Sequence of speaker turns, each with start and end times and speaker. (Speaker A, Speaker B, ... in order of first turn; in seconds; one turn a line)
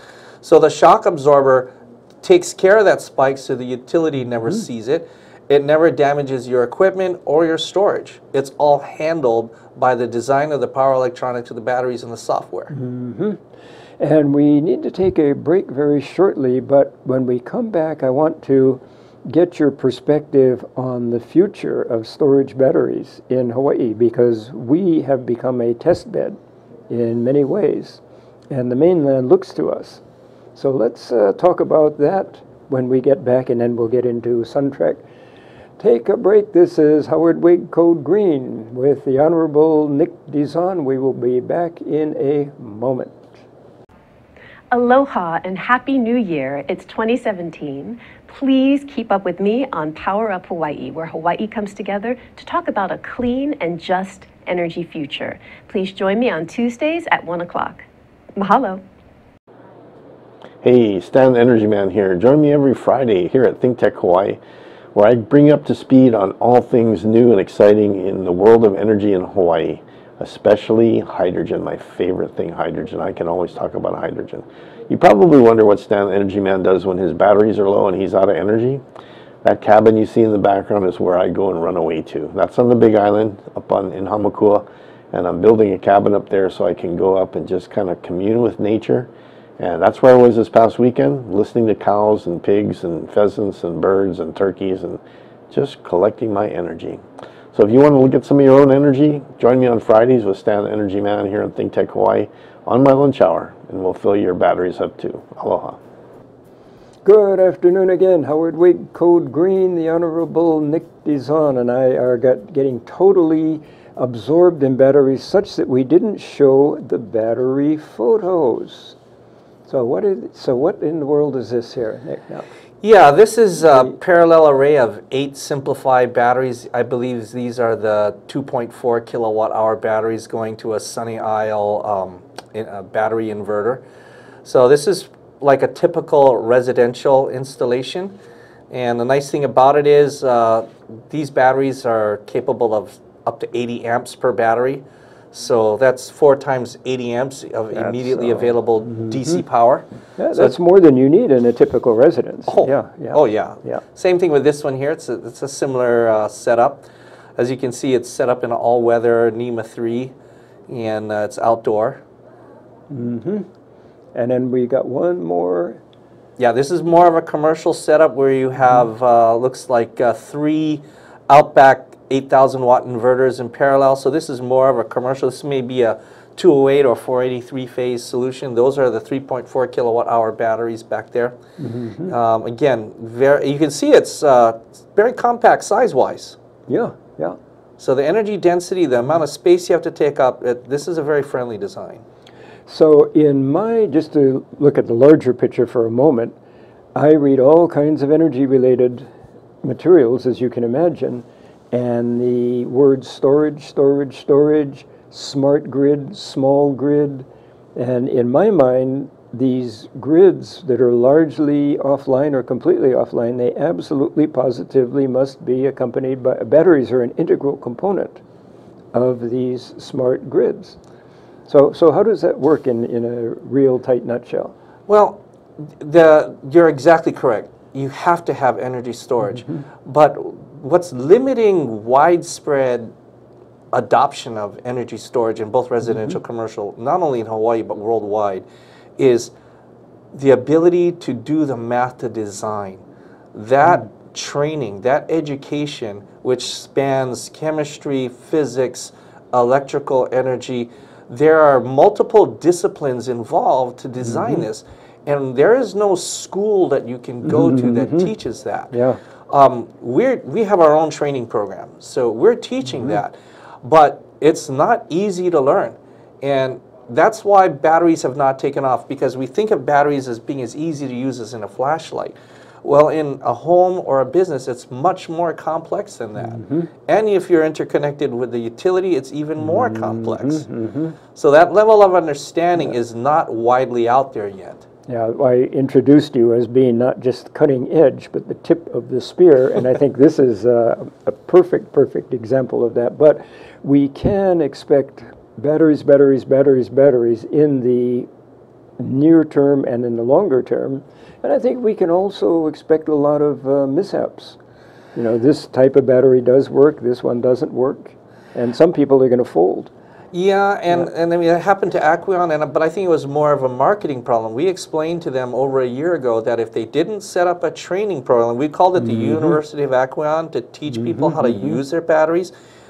Speaker A: 0.4-12.7
Speaker B: 12.7-13.4
Speaker B: 14.0-26.4
Speaker B: 26.9-30.0
Speaker B: 30.6-35.0
Speaker B: 35.8-43.3
Speaker C: 44.7-57.9
Speaker C: 58.4-58.8
Speaker D: 60.6-64.4
Speaker D: 64.9-78.8
Speaker D: 79.4-105.8
Speaker B: 107.0-119.0
Speaker B: 119.7-122.5
Speaker A: 122.8-133.8
Speaker B: 123.7-124.0
Speaker A: 134.4-138.2
Speaker A: 138.7-150.5
Speaker B: 147.7-149.4
Speaker B: 150.2-153.8
Speaker A: 152.5-160.1
Speaker A: 160.7-162.0
Speaker B: 162.9-163.5
Speaker B: 164.2-165.8
Speaker A: 166.4-181.4
Speaker B: 181.6-182.1
Speaker A: 182.1-186.4
Speaker B: 186.7-187.4
Speaker A: 187.8-192.0
Speaker B: 192.7-196.4
Speaker B: 196.9-199.1
Speaker B: 199.6-218.2
Speaker B: 218.9-220.8
Speaker B: 221.5-224.5
Speaker A: 224.9-232.9
Speaker B: 229.3-229.6
Speaker A: 233.7-238.4
Speaker A: 239.0-239.3
Speaker A: 240.1-242.8
Speaker A: 243.3-258.7
Speaker B: 254.1-254.4
Speaker B: 257.2-258.1
Speaker B: 258.7-259.0
Speaker A: 259.3-280.5
Speaker B: 276.2-276.7
Speaker B: 279.4-281.0
Speaker A: 281.1-284.6
Speaker B: 284.9-298.1
Speaker B: 298.8-304.4
Speaker B: 304.9-309.7
Speaker A: 310.1-322.3
Speaker B: 319.0-319.3
Speaker B: 320.9-321.6